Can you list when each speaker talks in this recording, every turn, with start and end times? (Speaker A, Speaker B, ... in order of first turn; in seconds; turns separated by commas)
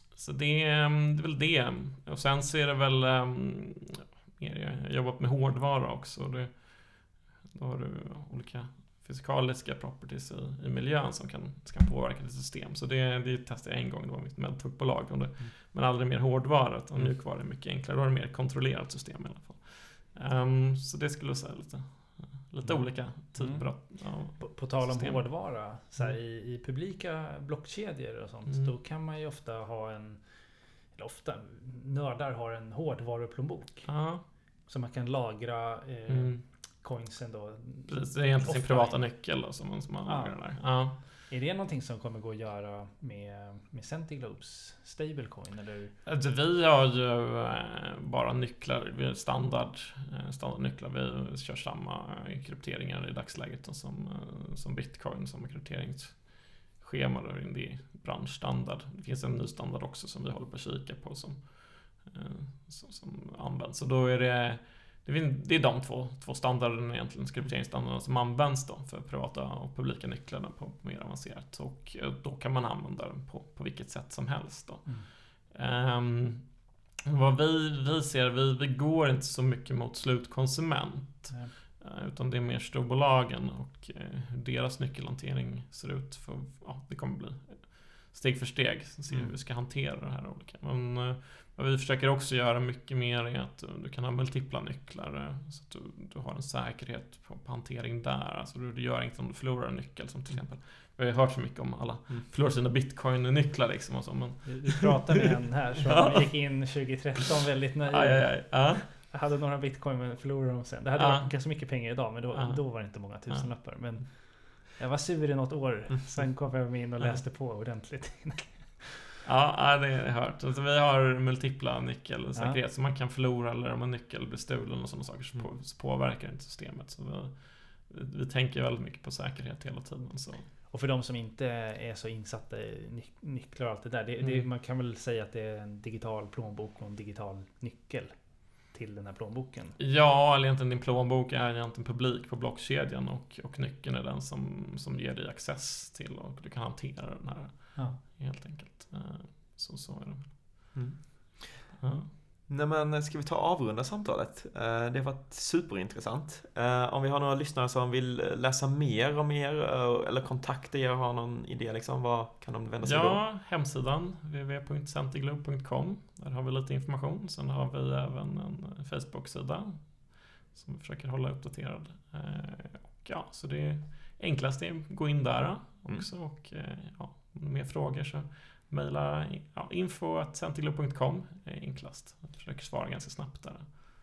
Speaker A: 0.1-26.1, Speaker B: 22.6-22.9, Speaker C: 23.3-39.4, Speaker A: 28.4-28.7, Speaker A: 33.9-34.2, Speaker A: 36.1-36.4, Speaker A: 37.9-41.0, Speaker C: 40.0-45.9, Speaker A: 46.0-105.1, Speaker B: 89.1-89.3, Speaker C: 104.4-118.9, Speaker A: 105.8-106.8, Speaker A: 107.8-109.0, Speaker A: 111.0-113.8, Speaker A: 119.2-130.4, Speaker C: 122.3-122.6, Speaker C: 130.7-139.8, Speaker A: 134.2-134.4, Speaker A: 139.8-150.8, Speaker C: 147.7-148.0, Speaker B: 150.7-163.2, Speaker A: 151.8-152.1, Speaker A: 162.8-183.7